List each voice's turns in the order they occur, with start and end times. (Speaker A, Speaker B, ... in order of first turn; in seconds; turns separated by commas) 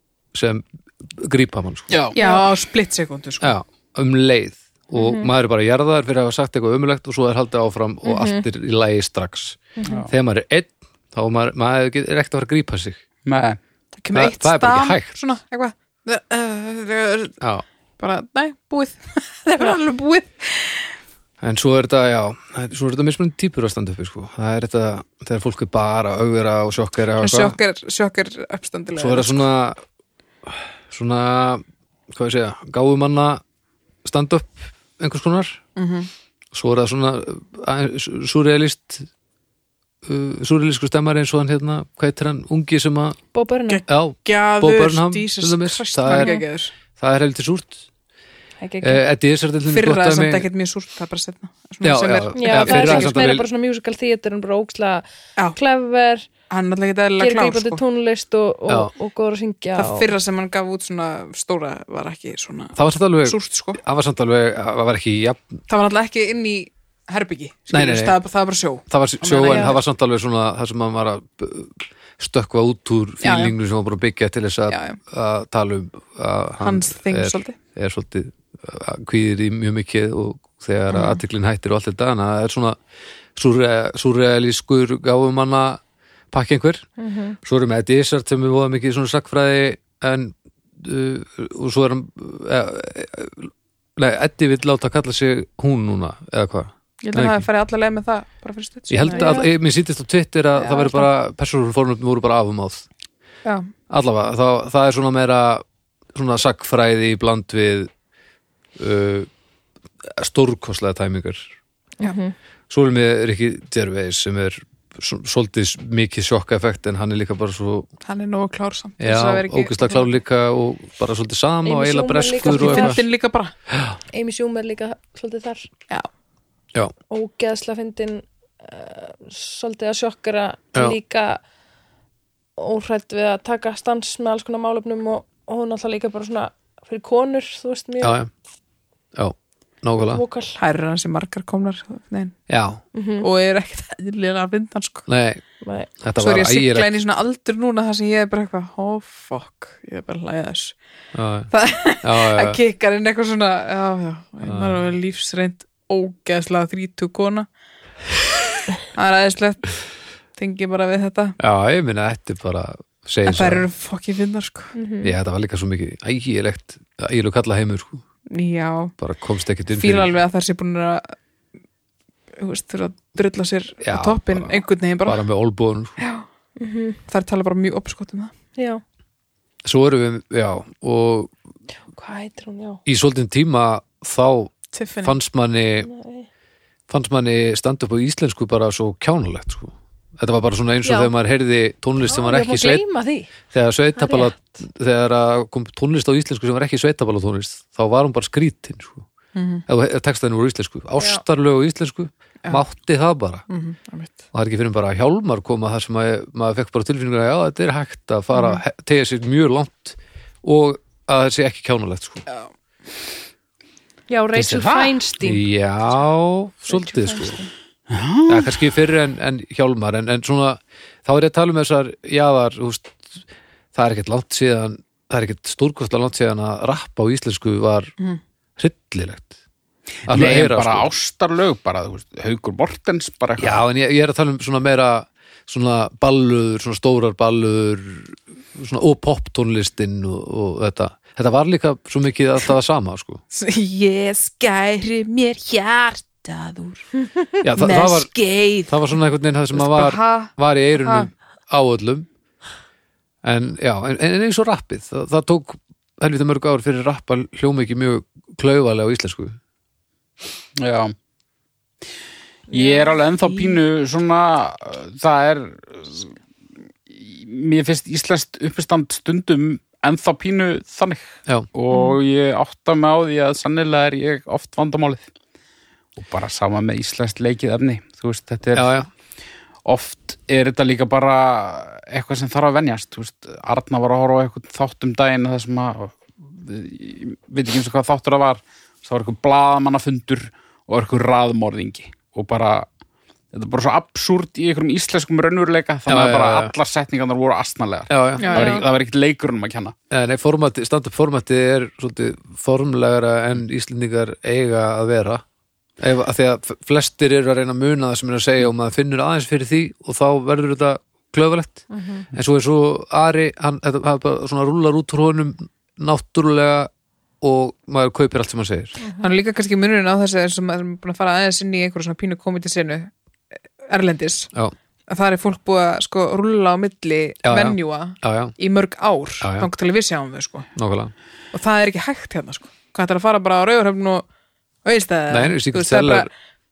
Speaker A: 0.3-1.9, Speaker B: 1.9-2.4, Speaker C: 2.1-3.5, Speaker A: 3.4-13.0, Speaker C: 8.1-8.4, Speaker B: 9.9-10.1, Speaker B: 13.2-13.6, Speaker C: 13.9-17.4, Speaker A: 14.1-15.2, Speaker C: 18.0-20.9, Speaker A: 21.4-27.6, Speaker C: 27.2-29.4, Speaker A: 29.0-29.8, Speaker A: 30.4-33.4, Speaker A: 34.0-35.6, Speaker C: 35.8-36.1, Speaker A: 36.5-39.1, Speaker A: 40.0-43.2, Speaker D: 43.3-43.8, Speaker C: 43.7-46.7, Speaker A: 43.9-46.4, Speaker D: 46.1-46.4, Speaker A: 47.0-47.9, Speaker D: 48.6-49.0, Speaker A: 48.8-50.5, Speaker C: 49.7-53.3, Speaker A: 51.8-53.5, Speaker D: 52.3-56.3, Speaker C: 56.5-57.8, Speaker D: 57.2-60.1, Speaker C: 59.8-63.8, Speaker A: 62.8-65.6, Speaker C: 65.7-69.8, Speaker A: 67.7-68.2, Speaker A: 68.9-82.8, Speaker B: 69.2-69.6, Speaker C: 73.2-73.5, Speaker C: 74.7-75.0, Speaker C: 76.6-77.6, Speaker C: 80.9-81.2, Speaker A: 83.4-85.8, Speaker A: 86.3-86.9, Speaker D: 87.0-87.4, Speaker A: 87.4-97.5, Speaker C: 97.0-99.4, Speaker A: 98.9-102.9, Speaker D: 99.0-99.5, Speaker C: 100.5-101.1, Speaker C: 103.4-103.7, Speaker A: 103.9-107.9, Speaker A: 108.8-109.3, Speaker A: 110.0-111.5, Speaker D: 112.0-112.3, Speaker A: 112.7-117.9, Speaker C: 118.0-120.1, Speaker A: 119.0-123.0, Speaker D: 121.6-123.0, Speaker C: 122.4-123.5, Speaker A: 123.7-124.0, Speaker D: 124.1-125.7, Speaker D: 127.1-131.4, Speaker D: 132.6-138.2, Speaker A: 138.0-138.3, Speaker A: 139.1-140.2, Speaker D: 140.1-140.6, Speaker C: 140.6-142.4, Speaker A: 142.5-142.8, Speaker D: 142.9-143.3, Speaker C: 143.2-145.1, Speaker A: 145.1-145.4, Speaker D: 145.6-145.9, Speaker A: 146.0-146.9, Speaker C: 146.2-150.8, Speaker A: 151.1-151.5, Speaker C: 151.5-157.5, Speaker A: 152.0-152.6, Speaker A: 154.4-154.8, Speaker C: 158.9-159.7, Speaker C: 160.4-161.4, Speaker A: 161.4-163.7, Speaker C: 163.2-164.7, Speaker D: 164.7-165.1, Speaker A: 165.0-168.0, Speaker C: 168.3-168.9, Speaker A: 169.0-170.1, Speaker C: 169.7-171.1, Speaker C: 172.4-175.2, Speaker A: 173.8-176.0, Speaker C: 176.0-176.2, Speaker D: 176.6-177.0, Speaker C: 177.1-178.3, Speaker D: 178.6-178.8, Speaker A: 179.6-181.3, Speaker D: 181.9-182.8, Speaker A: 182.8-185.9, Speaker C: 184.7-185.2, Speaker D: 185.8-186.3, Speaker A: 186.9-192.8, Speaker D: 190.8-191.1, Speaker D: 192.0-193.3, Speaker A: 193.5-199.1, Speaker D: 193.9-194.6, Speaker C: 199.3-199.6, Speaker A: 199.7-203.4, Speaker D: 201.0-201.2, Speaker C: 203.5-204.2, Speaker A: 204.3-212.2, Speaker C: 208.3-208.6, Speaker D: 214.1-215.4, Speaker B: 214.4-214.9, Speaker A: 215.2-217.4, Speaker D: 216.8-217.4, Speaker B: 217.9-218.6, Speaker A: 218.3-227.9, Speaker A: 228.6-229.3, Speaker A: 230.1-230.9, Speaker B: 230.1-233.6, Speaker A: 233.4-243.2, Speaker C: 243.3-248.9, Speaker A: 247.4-248.1, Speaker A: 248.7-252.1, Speaker C: 249.5-251.1, Speaker A: 253.2-259.4, Speaker B: 260.6-260.9, Speaker B: 262.5-266.1, Speaker B: 266.9-275.1, Speaker B: 276.0-278.8, Speaker A: 278.5-278.9, Speaker B: 279.6-292.6, Speaker B: 293.3-299.7, Speaker A: 295.9-296.5, Speaker A: 297.9-298.3, Speaker C: 298.2-298.5, Speaker D: 298.2-298.6, Speaker A: 299.9-305.2, Speaker A: 305.8-316.7, Speaker C: 311.7-312.0, Speaker A: 317.2-318.8, Speaker C: 319.0-322.9, Speaker C: 323.6-324.3, Speaker C: 324.9-330.5, Speaker A: 327.2-328.4, Speaker A: 329.2-329.5, Speaker A: 330.6-330.9, Speaker C: 331.3-334.1, Speaker C: 334.6-336.1, Speaker A: 335.1-336.1